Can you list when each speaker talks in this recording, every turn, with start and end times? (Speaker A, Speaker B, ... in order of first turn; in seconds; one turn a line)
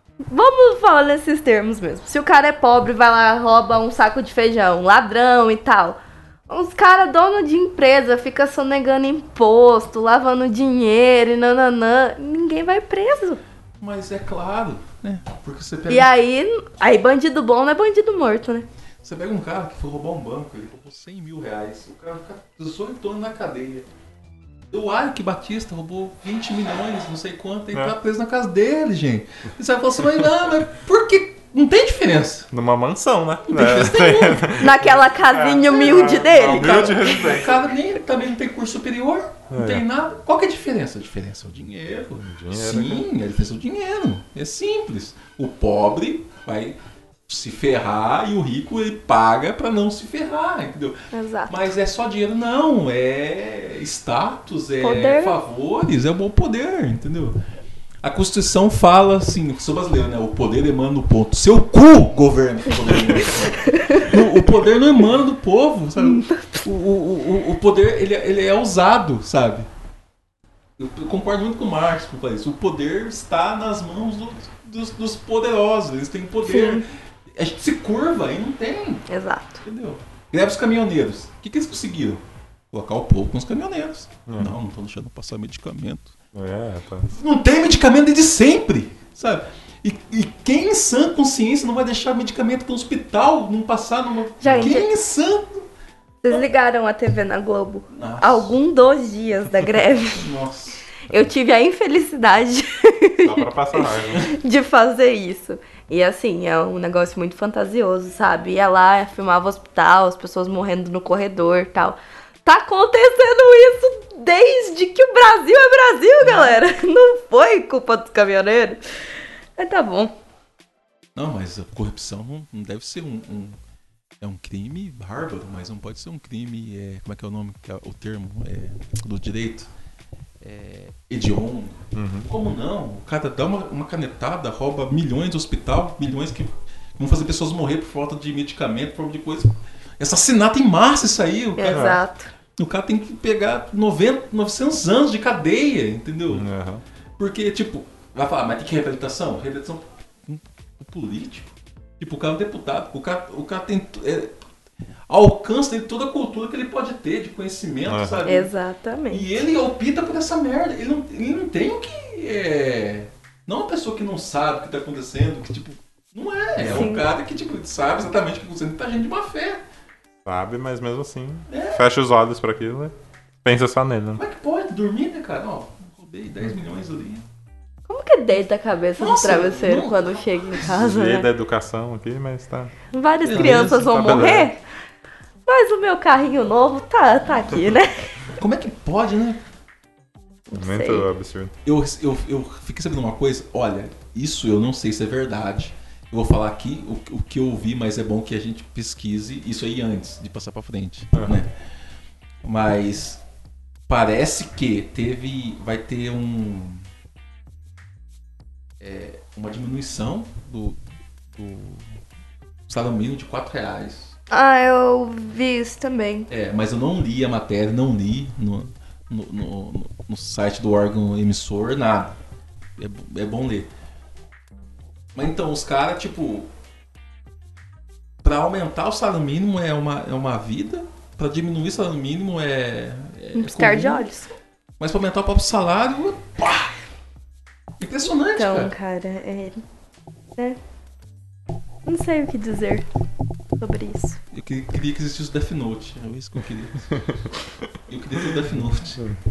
Speaker A: 0.3-13.4
Speaker B: 13.8-16.1
Speaker A: 15.9-18.6
Speaker B: 19.0-23.9
Speaker B: 24.7-32.5
Speaker C: 32.5-37.7
Speaker B: 33.5-34.6
Speaker A: 34.6-37.3
Speaker B: 36.5-57.4
Speaker C: 39.5-39.8
Speaker C: 42.2-43.1
Speaker A: 51.1-51.7
Speaker A: 54.8-55.4
Speaker B: 58.0-69.7
Speaker A: 63.4-64.2
Speaker A: 66.0-66.7
Speaker B: 70.8-79.0
Speaker A: 76.5-76.8
Speaker A: 79.1-79.6
Speaker B: 79.6-86.2
Speaker C: 84.3-84.5
Speaker C: 86.3-87.1
Speaker B: 87.1-95.7
Speaker A: 94.4-94.9
Speaker C: 94.4-94.8
Speaker A: 96.2-100.3
Speaker B: 97.9-98.6
Speaker B: 100.0-100.9
Speaker A: 101.1-118.8
Speaker C: 103.2-104.3
Speaker B: 116.2-116.6
Speaker A: 119.6-120.1
Speaker B: 121.2-123.6
Speaker B: 124.2-129.7
Speaker B: 130.4-142.0
Speaker C: 131.9-132.3
Speaker A: 141.6-142.3
Speaker C: 141.7-142.0
Speaker B: 142.6-146.5
Speaker C: 146.3-146.8
Speaker B: 147.2-154.4
Speaker B: 155.1-158.5
Speaker C: 157.9-158.2
Speaker A: 158.2-159.2
Speaker B: 159.1-169.6
Speaker C: 166.6-166.9
Speaker A: 166.7-167.1
Speaker C: 170.2-174.2
Speaker B: 171.5-171.8
Speaker B: 174.2-177.3
Speaker A: 177.9-181.3
Speaker B: 179.0-180.6
Speaker C: 180.6-182.7
Speaker A: 182.9-184.6
Speaker B: 183.2-184.4
Speaker C: 183.3-184.5
Speaker A: 185.4-188.3
Speaker B: 188.3-189.4
Speaker A: 190.5-191.1
Speaker C: 190.5-191.5
Speaker B: 191.6-201.5
Speaker C: 201.1-201.4
Speaker B: 202.4-203.2
Speaker B: 203.9-206.8
Speaker B: 208.8-210.8
Speaker B: 211.3-212.0
Speaker B: 212.7-214.1
Speaker A: 214.3-216.3
Speaker B: 216.3-222.2
Speaker B: 222.8-223.7
Speaker B: 225.1-226.5
Speaker B: 228.2-234.1
Speaker A: 233.3-234.3
Speaker B: 234.8-236.8
Speaker B: 237.8-238.7
Speaker A: 238.3-239.6
Speaker A: 241.8-242.8
Speaker A: 243.6-244.2
Speaker B: 244.3-247.0
Speaker B: 247.9-249.1